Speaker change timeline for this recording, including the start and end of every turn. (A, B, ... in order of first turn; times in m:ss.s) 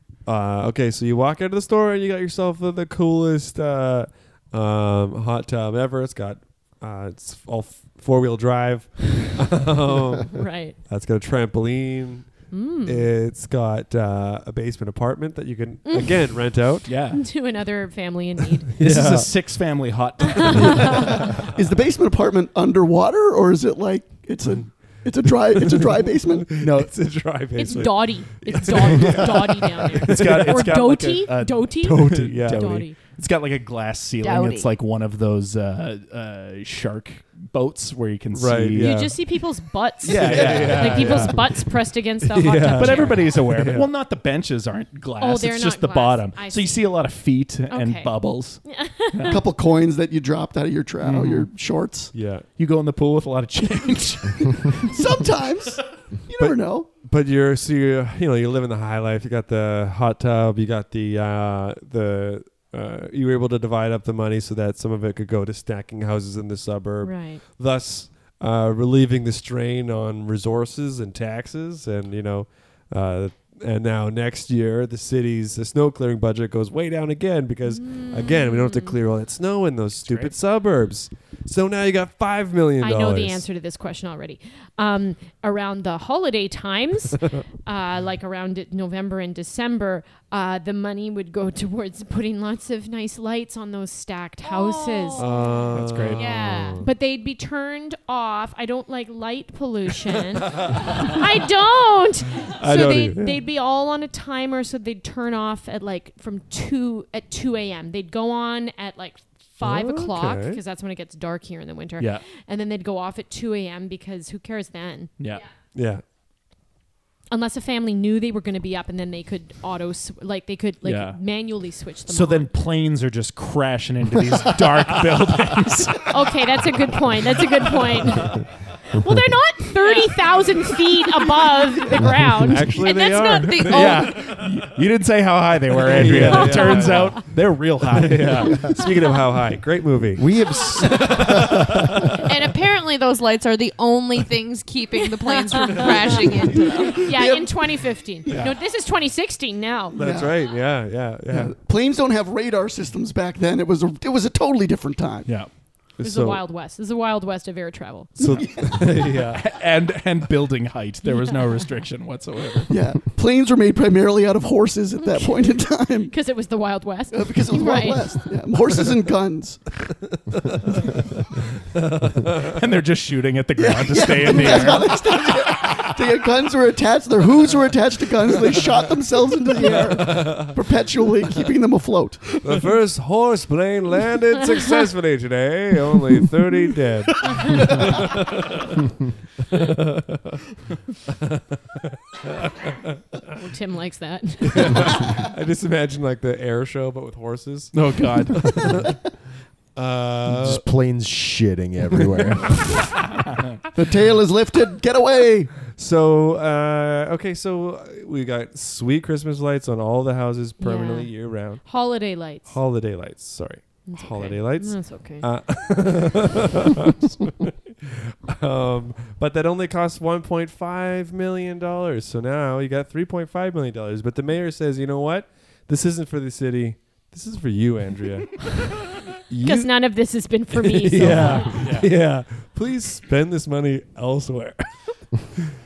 0:00.3-0:17.0 A
0:10.3-0:10.8 B
0:12.5-0:13.1 B
0:15.8-0:16.5 B
0:16.9-0:17.2 C
0:17.1-0:18.7 B
0:18.8-0:19.3 A
0:18.8-0:21.1 C
0:20.3-0:21.3 B
0:21.5-0:26.5 D
0:25.6-0:30.7 A
0:26.6-0:26.9 C
0:27.6-0:33.0 B
0:30.1-0:39.0 C
0:31.8-0:32.8 A
0:34.2-0:34.7 E
0:38.3-0:39.3 A
0:38.8-0:43.5 B
0:40.0-0:41.4 C
0:40.0-0:41.7 A
0:40.4-0:40.7 D
0:42.2-0:43.9 A
0:42.8-0:49.4 C
0:45.2-0:47.0 B
0:47.7-0:49.4 B
0:49.3-0:52.1 D
0:51.0-0:51.5 C
0:52.1-0:52.5 A
0:52.6-0:55.0 C
0:54.8-0:56.9 D
0:56.4-1:23.4 A
1:07.0-1:07.4 B
1:17.7-1:19.0 B
1:20.0-1:20.3 C
1:22.8-1:35.5 B
1:34.4-1:35.6 E
1:35.2-1:36.9 A
1:35.7-1:36.5 C
1:36.1-1:36.9 E
1:36.8-1:55.1 B
1:42.6-1:43.4 A
1:49.6-1:50.6 A
1:52.0-1:52.2 C
1:55.2-1:55.4 C
1:55.7-1:56.0 A
1:57.3-2:02.5 B
2:00.8-2:01.2 C
2:02.1-2:06.1 C
2:06.1-2:14.1 B
2:12.4-2:14.6 A
2:12.8-2:14.2 E
2:13.7-2:18.7 C
2:15.8-2:17.2 A
2:16.1-2:17.2 B
2:17.9-2:21.8 A
2:20.2-2:22.1 F
2:22.2-2:27.0 E
2:25.4-2:26.3 B
2:26.9-2:27.9 D
2:26.9-2:30.0 B
2:30.0-2:30.4 D
2:30.0-2:31.5 A
2:31.3-2:35.3 D
2:36.0-2:36.4 A
2:36.0-2:38.3 B
2:38.2-2:38.8 D
2:38.2-2:39.5 A
2:38.6-2:42.7 C
2:41.1-2:41.6 B
2:42.7-2:46.1 D
2:45.0-2:48.3 B
2:47.1-2:49.6 D
2:50.1-2:52.6 A
2:52.5-2:55.0 C
2:53.7-3:02.4 D
2:59.5-3:00.6 A
3:02.4-3:08.8 A
3:04.6-3:04.9 B
3:09.5-3:10.4 A
3:11.1-3:11.8 A
3:12.3-3:13.2 A
3:13.4-3:15.2 B
3:14.5-3:19.0 A
3:17.7-3:18.6 C
3:19.8-3:20.7 A
3:20.3-3:22.7 F
3:22.0-3:22.4 A
3:23.0-3:23.5 C
3:23.7-3:25.5 D
3:25.7-3:48.6 A
3:30.6-3:32.6 B
3:33.8-3:35.3 B
3:49.3-3:49.9 A
3:49.4-3:51.7 B
3:50.5-3:55.2 A
3:51.0-3:51.9 C